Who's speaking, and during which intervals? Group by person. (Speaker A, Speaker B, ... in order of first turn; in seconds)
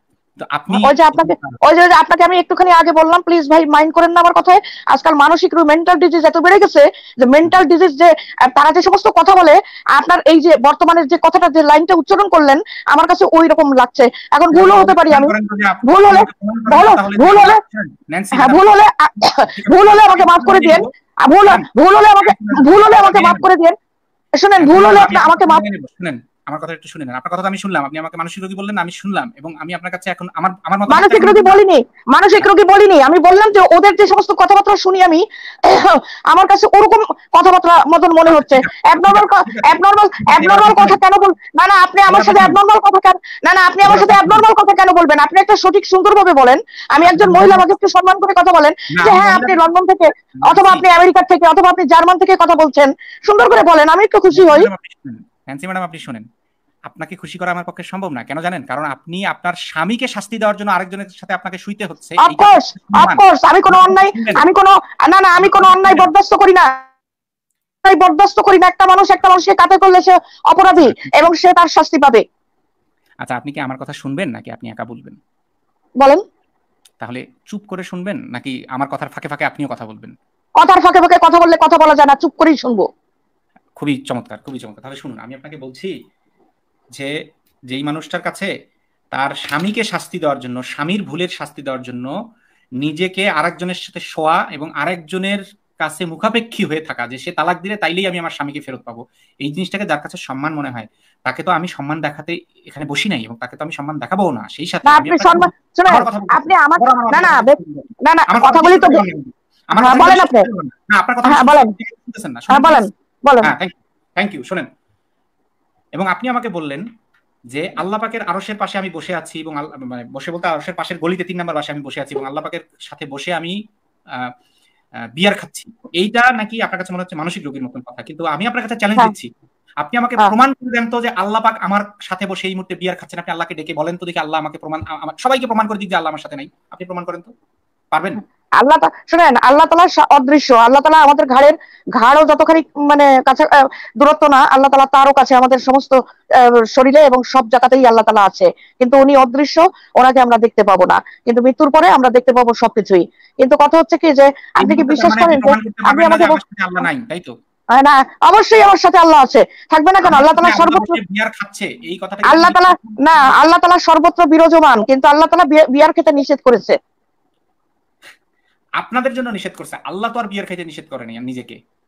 Speaker A: 0.4-1.6, 14.5-20.9, 22.2-23.5, 24.6-31.6, 38.3-39.8, 40.3-41.0, 42.1-42.6, 43.8-44.5, 47.0-47.7, 48.9-49.6, 50.4-50.9, 54.3-56.3, 56.9-64.5, 65.4-66.1, 70.8-71.3, 73.2-75.2, 77.0-80.2, 83.8-85.9, 87.7-88.5, 89.1-92.1, 92.8-112.9, 113.4-114.7, 116.0-116.8, 117.5-123.6, 125.2-137.3, 137.9-138.2, 154.6-157.3, 160.0-163.3, 168.8-171.6
Speaker B: 0.7-15.3, 15.9-17.6, 18.3-23.7, 24.4-25.6, 30.9-54.7, 62.2-66.8, 67.8-72.2, 80.6-82.9, 104.9-109.0, 109.8-110.5, 111.3-111.7, 112.5-113.5, 138.6-156.4, 157.7-161.0, 162.3-166.8